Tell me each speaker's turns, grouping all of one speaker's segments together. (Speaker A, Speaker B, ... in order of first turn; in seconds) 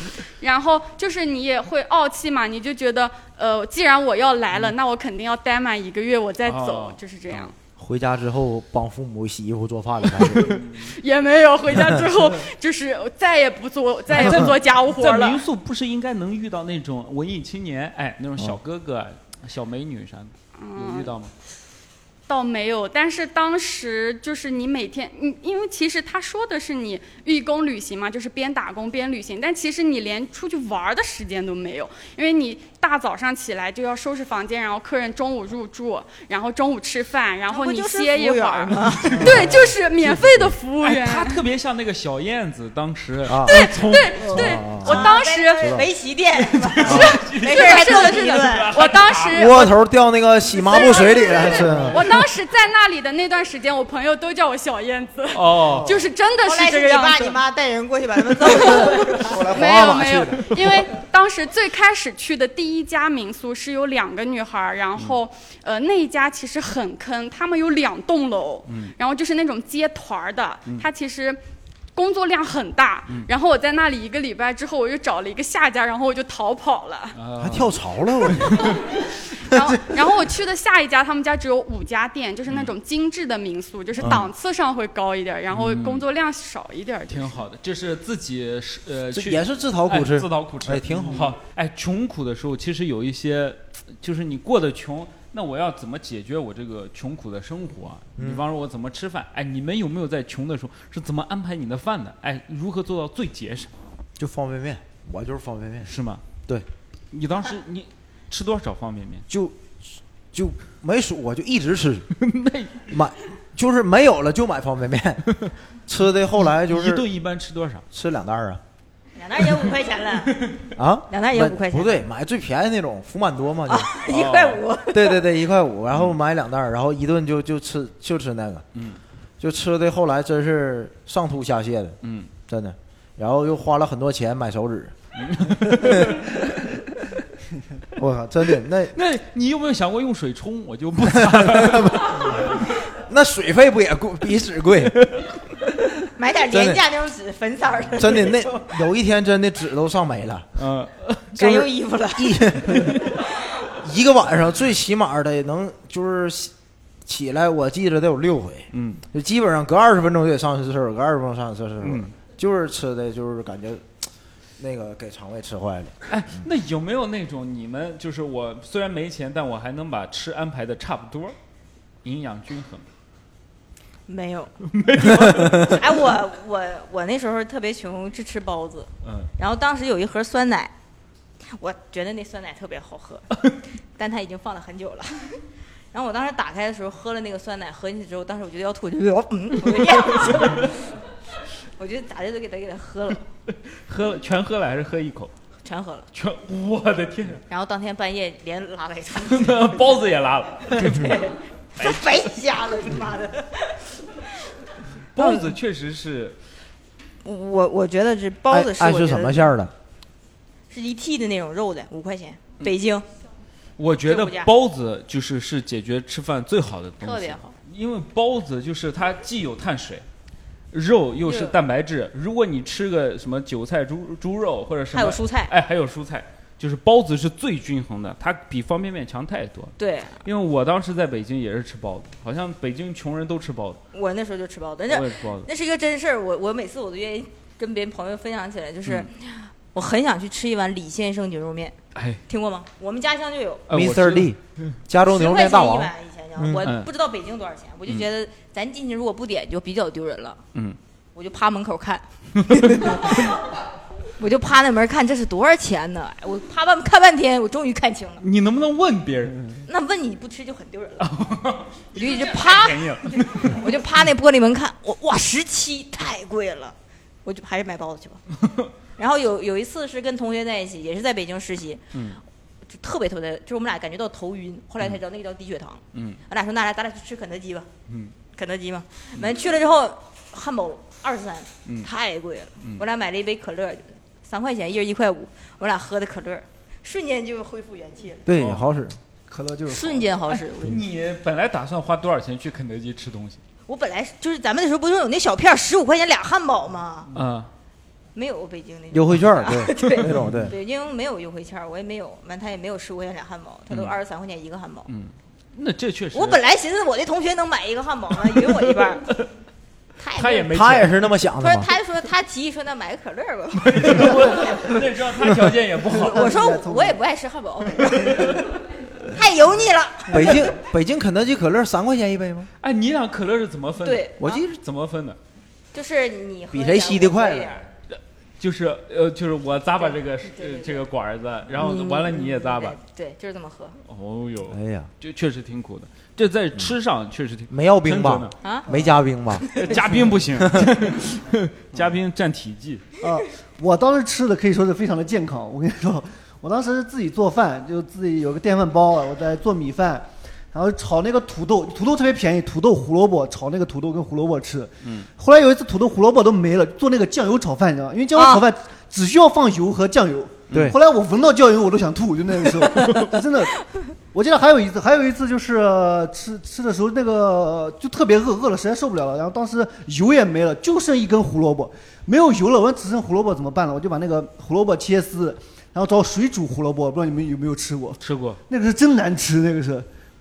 Speaker A: 0.4-7.5, 10.8-15.4, 20.6-21.1, 22.3-41.4, 43.5-45.8, 46.9-49.8, 50.6-57.4, 58.4-71.4, 72.0-77.2, 79.4-87.4
Speaker B: 6.5-7.5, 10.4-10.8, 14.1-21.3, 40.8-44.5, 46.5-49.5, 51.7-52.0, 55.3-55.9, 68.7-68.9, 77.1-78.8, 85.5-86.0, 87.1-103.7, 105.9-106.2, 107.1-109.2, 112.2-112.8, 116.7-117.8, 124.1-124.6, 132.0-132.3, 135.2-136.4, 138.9-142.6, 150.6-151.3, 152.7-153.1, 158.7-159.0, 161.8-162.1, 166.1-171.4, 172.0-172.8, 174.7-175.8, 179.0-179.3, 193.7-195.3, 196.1-197.4, 199.3-201.2, 201.8-202.3, 205.1-206.4, 213.8-220.0, 220.7-233.8, 234.9-235.5, 241.9-242.2, 243.7-244.4, 246.6-246.9, 252.5-253.2, 258.2-259.4, 261.0-263.6, 271.9-272.2, 275.9-276.2, 277.9-278.1, 288.4-288.6, 290.6-293.4, 297.1-297.5, 304.9-306.4, 310.1-311.0, 313.6-316.3, 322.6-325.2, 327.9-332.8, 333.9-338.4, 339.6-342.8, 378.0-378.4
Speaker C: 7.8-10.6, 39.2-40.5, 43.3-45.0, 45.6-45.9, 49.3-52.1, 55.7-56.0, 58.6-60.8, 77.4-78.8, 84.0-84.2, 89.1-91.4, 98.2-98.4, 104.2-105.9, 109.3-112.1, 112.9-115.3, 115.9-117.1, 117.9-118.6, 120.8-123.9, 124.9-128.7, 129.4-132.0, 132.5-134.9, 135.7-136.2, 138.0-138.9, 141.2-145.1, 146.5-146.8, 147.9-150.6, 151.4-153.0, 153.8-156.5, 157.1-163.9, 164.6-166.4, 208.5-209.7, 243.7-246.7, 288.2-289.0, 298.9-300.5, 310.4-311.7, 320.1-322.5, 324.2-324.5, 326.5-327.6, 334.5-334.9, 337.5-339.6, 340.4-340.7
Speaker D: 37.5-39.2, 44.2-48.7, 56.4-59.4, 119.2-120.5, 121.1-122.1, 123.7-125.2, 146.2-148.6, 151.4-152.4, 174.1-174.5, 175.2-180.7, 181.5-183.4, 184.0-185.4, 185.9-190.8, 191.8-193.2, 195.6-196.1, 197.5-199.8, 200.7-203.8, 207.2-209.5, 210.7-213.1, 214.1-214.5, 217.0-217.5, 221.2-221.6, 224.9-225.5, 229.8-230.2, 233.9-243.6, 245.1-250.4, 251.2-253.4, 254.2-258.2, 259.7-261.1, 261.9-268.2, 269.0-271.8, 272.7-277.7, 278.3-288.3, 289.7-290.8, 293.7-297.1, 298.1-304.9, 306.1-309.1, 310.0-310.5, 311.4-314.1, 316.0-318.5, 319.1-320.5, 323.8-324.4, 325.7-327.7, 329.8-330.8, 331.6-333.8, 338.4-338.7, 358.1-358.4
Speaker E: 289.3-290.1, 314.0-314.6, 315.9-317.0, 338.7-338.9, 339.6-340.0, 343.0-379.9